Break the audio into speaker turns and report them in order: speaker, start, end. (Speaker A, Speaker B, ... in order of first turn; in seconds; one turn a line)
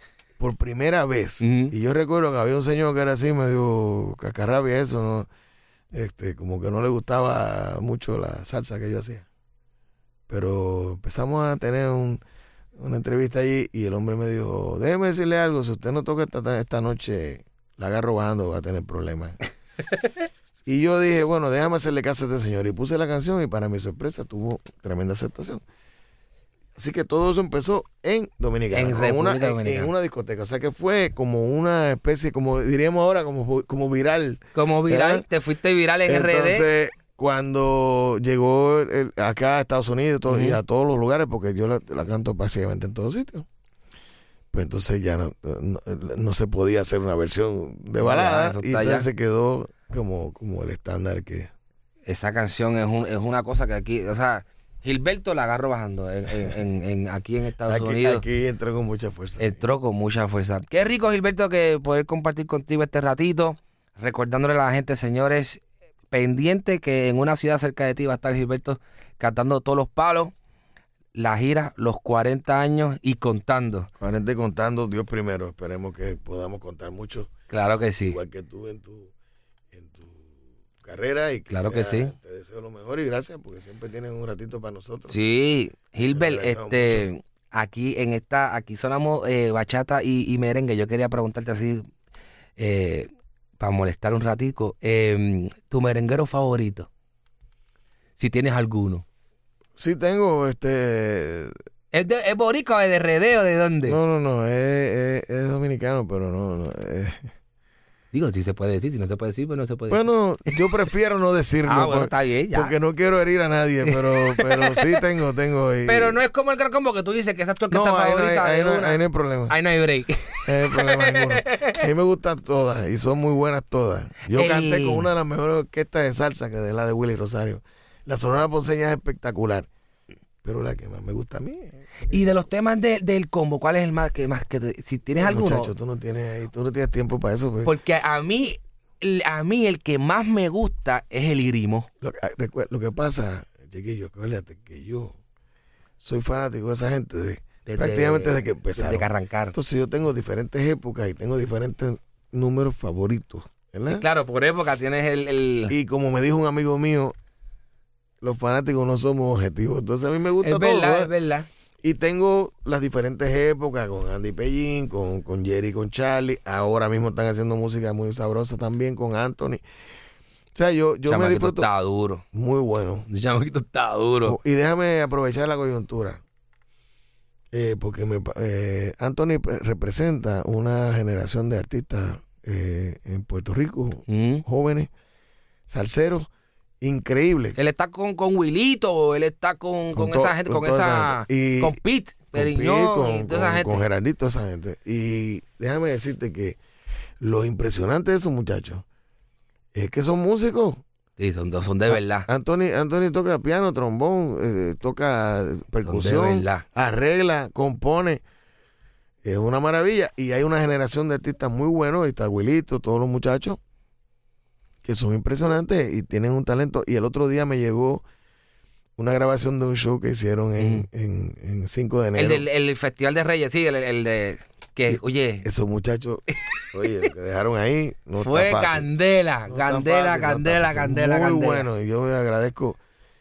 Speaker A: 0.4-5.3
Speaker B: 1.4-1.7
Speaker A: 5.9-9.3
Speaker A: 10.3-12.2
Speaker A: 12.8-19.4
Speaker A: 20.7-25.6
Speaker A: 26.8-35.2
Speaker B: 28.7-29.9
Speaker B: 34.5-36.7
Speaker A: 36.1-43.5
Speaker B: 40.3-40.6
Speaker A: 44.5-51.5
Speaker B: 48.0-49.1
Speaker B: 52.1-58.2
Speaker A: 57.7-59.6
Speaker B: 59.4-70.3
Speaker B: 71.2-73.9
Speaker A: 74.0-77.3
Speaker B: 77.5-78.2
Speaker A: 78.1-79.1
Speaker A: 79.7-85.2
Speaker B: 81.5-82.1
Speaker B: 85.1-91.9
Speaker A: 86.1-87.1
Speaker B: 92.6-96.9
Speaker B: 98.2-99.0
Speaker A: 99.8-101.5
Speaker B: 101.9-104.0
Speaker A: 103.9-107.3
Speaker B: 108.1-110.8
Speaker A: 109.9-116.2
Speaker B: 111.7-112.8
Speaker B: 113.8-115.0
Speaker B: 115.9-121.8
Speaker A: 117.7-119.5
Speaker A: 120.5-129.7
Speaker B: 124.3-125.1
Speaker A: 130.4-132.2
Speaker B: 132.1-135.7
Speaker A: 135.2-137.7
Speaker B: 137.6-141.9
Speaker A: 142.0-145.2
Speaker A: 146.0-154.1
Speaker B: 147.7-149.6
Speaker B: 153.9-155.7
Speaker A: 155.7-157.2
Speaker A: 158.2-161.1
Speaker B: 160.4-161.5
Speaker A: 161.8-169.6
Speaker A: 170.6-171.7
Speaker B: 171.1-172.2
Speaker A: 172.3-173.1
Speaker B: 173.1-174.4
Speaker A: 174.2-176.2
Speaker A: 177.5-184.9
Speaker B: 184.1-184.4
Speaker A: 185.7-186.3
Speaker A: 186.8-187.6
Speaker B: 187.6-193.8
Speaker A: 189.9-191.8
Speaker A: 192.3-196.6
Speaker A: 197.2-198.8
Speaker A: 199.7-200.8
Speaker B: 201.2-202.3
Speaker A: 201.9-208.2
Speaker B: 205.8-206.7
Speaker A: 209.2-213.6
Speaker A: 214.8-218.1
Speaker A: 219.0-222.4
Speaker B: 220.6-220.9
Speaker B: 222.2-225.4
Speaker A: 224.9-228.9
Speaker B: 228.2-231.7
Speaker A: 229.5-232.8